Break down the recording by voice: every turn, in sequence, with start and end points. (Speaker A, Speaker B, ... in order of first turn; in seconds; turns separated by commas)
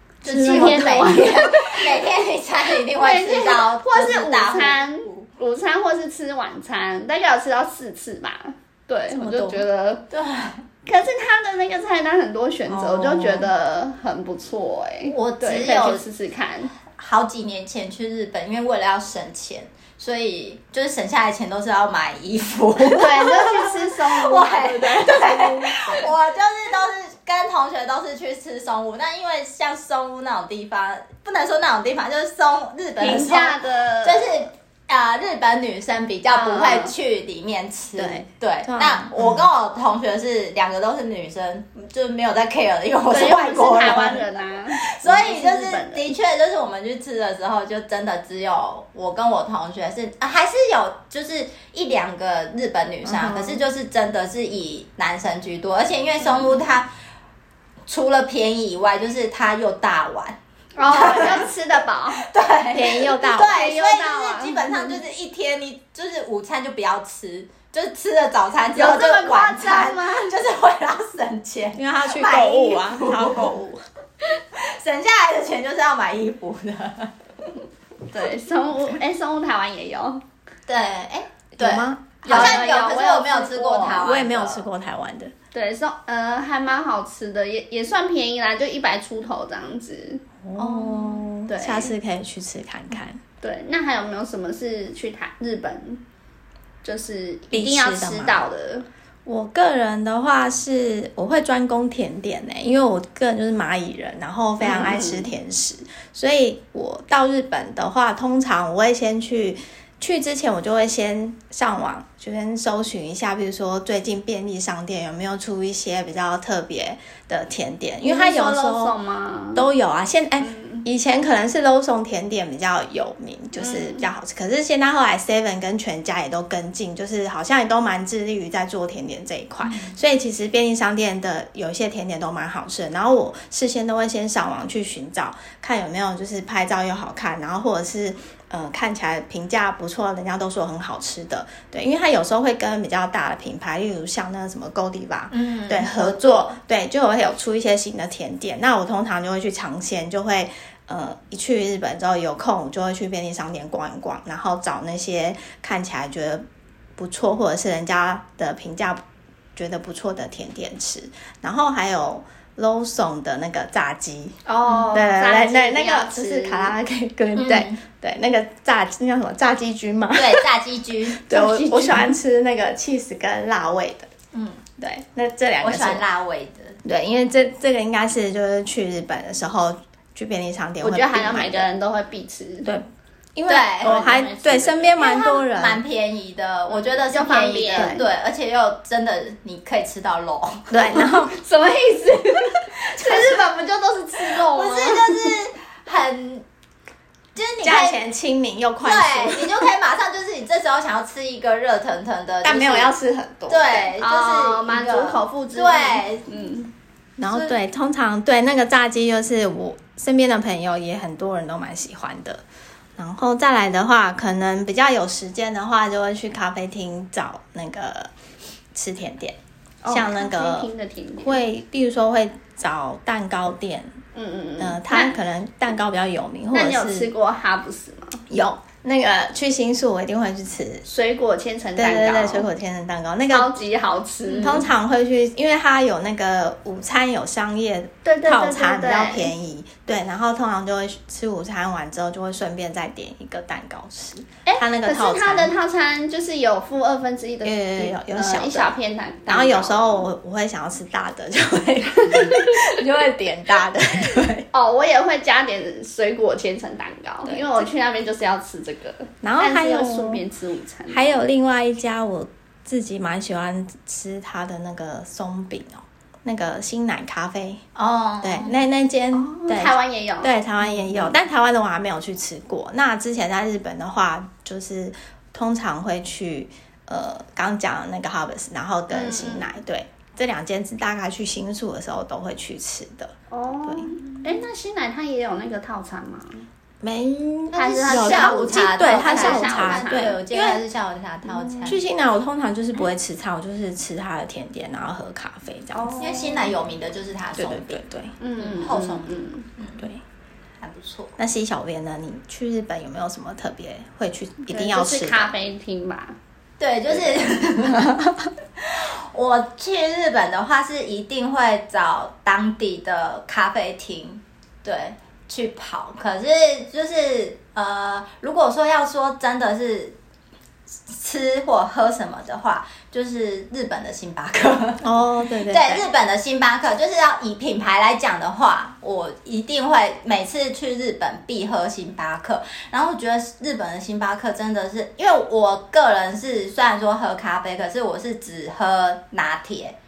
Speaker A: 0.2-1.1, Speaker B: 0.2-5.3, Speaker C: 0.3-2.0, Speaker C: 2.9-10.1, Speaker A: 9.1-9.6, Speaker B: 10.1-10.6, Speaker C: 10.8-16.7, Speaker A: 12.7-13.5, Speaker B: 15.0-16.0, Speaker B: 16.9-56.9, Speaker C: 22.8-26.1, Speaker C: 33.0-34.5, Speaker C: 36.3-36.9, Speaker A: 38.0-39.5, Speaker C: 43.1-46.1, Speaker A: 53.0-53.6, Speaker B: 57.9-61.5, Speaker C: 60.8-62.3, Speaker B: 62.2-73.5, Speaker A: 62.7-63.6, Speaker C: 63.4-64.9, Speaker C: 68.8-70.3, Speaker A: 71.8-73.8, Speaker B: 74.6-77.1, Speaker C: 78.1-80.2, Speaker B: 80.7-84.6, Speaker A: 81.6-82.6, Speaker C: 82.3-84.0, Speaker A: 84.0-85.3, Speaker C: 85.5-90.2, Speaker A: 90.4-93.2, Speaker B: 90.6-91.2, Speaker C: 91.5-91.9, Speaker C: 93.4-96.0, Speaker C: 96.8-98.8, Speaker A: 97.5-98.4, Speaker A: 99.2-119.0, Speaker C: 104.6-105.3, Speaker C: 118.0-119.7, Speaker A: 119.5-156.4, Speaker C: 120.4-120.8, Speaker C: 123.6-124.1, Speaker B: 129.6-129.9, Speaker B: 145.3-146.2, Speaker A: 157.0-159.0, Speaker A: 159.5-164.4, Speaker C: 164.4-166.7, Speaker A: 164.9-170.5, Speaker B: 167.3-167.8, Speaker B: 170.1-171.2, Speaker A: 171.2-174.1, Speaker C: 171.3-172.1, Speaker B: 174.3-174.6, Speaker A: 174.8-176.0, Speaker B: 175.6-176.8, Speaker A: 176.8-181.7, Speaker C: 180.8-182.7, Speaker A: 182.6-185.8, Speaker B: 183.5-183.9, Speaker C: 183.8-185.4, Speaker B: 185.0-190.9, Speaker C: 186.7-188.0, Speaker A: 187.7-188.0, Speaker A: 190.7-191.4, Speaker C: 190.9-195.3, Speaker A: 193.0-193.3, Speaker B: 194.2-196.4, Speaker B: 197.3-198.0, Speaker A: 197.6-199.7, Speaker B: 198.8-202.9, Speaker A: 202.4-203.9, Speaker B: 203.5-206.2, Speaker C: 204.0-206.7, Speaker A: 207.2-212.4, Speaker A: 213.0-218.1, Speaker A: 218.7-220.7, Speaker C: 219.8-221.4, Speaker A: 221.2-223.9, Speaker C: 224.1-225.1, Speaker A: 224.6-227.1, Speaker C: 226.5-228.2, Speaker A: 228.3-230.8, Speaker C: 230.8-232.5, Speaker A: 231.8-233.6, Speaker C: 233.3-234.7, Speaker A: 234.3-245.5, Speaker C: 238.0-239.3, Speaker C: 244.4-250.1, Speaker A: 247.4-248.7, Speaker A: 249.3-254.5, Speaker C: 252.1-252.5, Speaker C: 254.5-261.1, Speaker A: 257.2-257.6, Speaker A: 259.2-260.2, Speaker A: 260.9-267.6, Speaker B: 267.8-268.5, Speaker A: 268.2-283.1, Speaker C: 269.1-271.1, Speaker C: 278.9-279.5, Speaker C: 283.3-286.4, Speaker A: 283.7-283.9, Speaker A: 286.8-290.6, Speaker C: 287.5-290.1, Speaker B: 287.5-291.8, Speaker A: 291.6-296.0, Speaker C: 295.7-296.6, Speaker B: 296.0-297.8, Speaker A: 297.4-298.2, Speaker C: 298.2-299.4, Speaker B: 298.4-299.9, Speaker B: 300.6-301.1, Speaker A: 301.2-305.3, Speaker C: 304.5-306.1, Speaker B: 306.6-307.8, Speaker A: 307.6-308.3, Speaker B: 308.6-320.0, Speaker B: 320.9-325.0, Speaker A: 324.8-325.8, Speaker B: 325.5-339.8